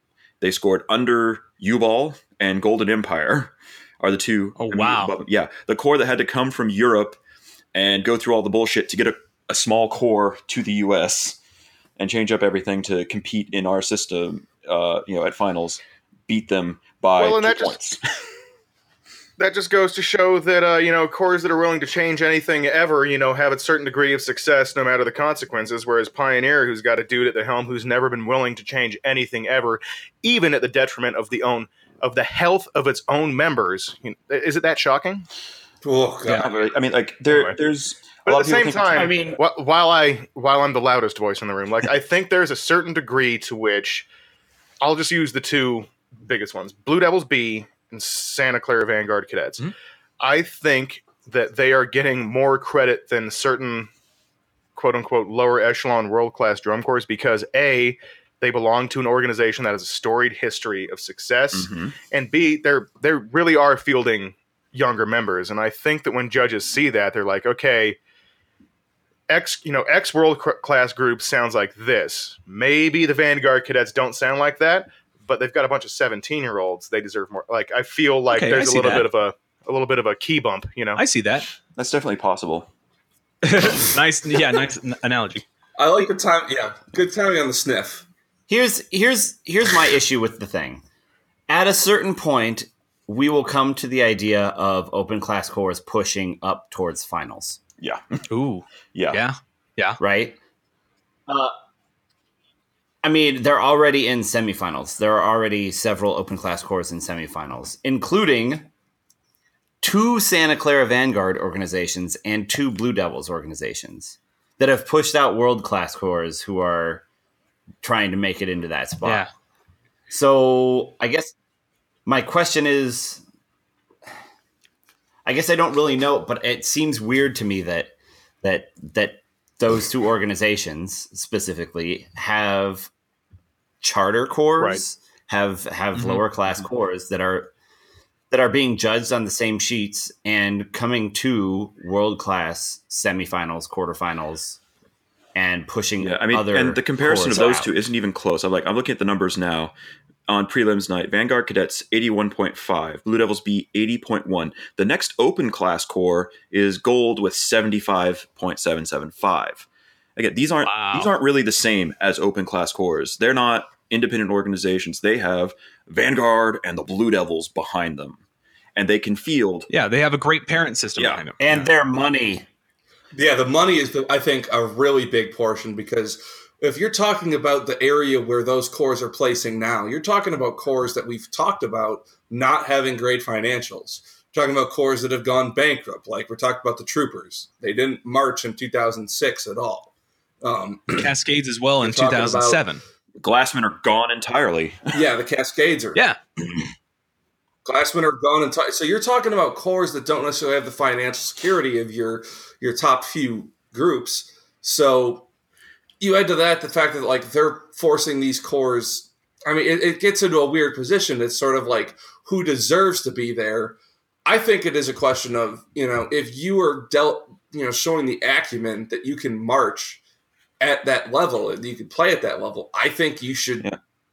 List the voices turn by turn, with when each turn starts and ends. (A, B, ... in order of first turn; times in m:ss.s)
0:00.4-0:07.2 A
0:04.6-0:05.1 B
0:07.7-0:11.4 A
0:12.0-0:18.0 A
0:17.2-0:17.8 C
0:19.4-0:35.2 C
0:35.8-0:36.5 D
0:36.3-0:39.2 A
0:37.3-0:37.6 C
0:38.2-0:44.1 C
0:38.9-0:39.4 E
0:44.8-0:49.7 C
0:50.2-0:53.9 C
0:54.7-1:08.0 C
1:01.5-1:01.9 A
1:09.3-1:21.0 C
1:18.3-1:19.1 B
1:21.0-1:21.5 B
1:21.8-1:22.7 A
1:23.4-1:25.4 B
1:25.8-1:28.0 D
1:28.5-1:30.8 E
1:31.5-1:37.6 E
1:37.8-1:38.2 A
1:38.3-1:40.0 B
1:38.9-1:39.2 A
1:40.0-1:40.4 E
1:43.0-1:48.7 E
1:49.8-1:57.0 E
1:57.8-1:59.3 E
1:59.0-1:59.3 B
2:00.1-2:01.3 E
2:02.0-2:03.2 E
2:05.2-2:12.9 E
2:13.8-2:17.5 E
2:14.6-2:14.8 C
2:15.9-2:16.2 B
2:18.3-2:24.6 E
2:25.3-2:27.7 E
2:26.0-2:29.7 A
2:30.3-2:48.2 A
2:40.6-2:41.1 B
2:48.7-2:49.7 A
2:49.7-2:51.7 B
2:51.0-2:51.2 A
2:51.4-2:52.4 E
2:53.1-3:09.9 D
3:10.4-3:11.1 D
3:10.9-3:12.8 B
3:11.8-3:12.6 D
3:13.2-3:15.0 A
3:14.9-3:16.0 D
3:17.6-3:25.2 D
3:26.0-3:40.0 D
3:40.6-3:43.7 D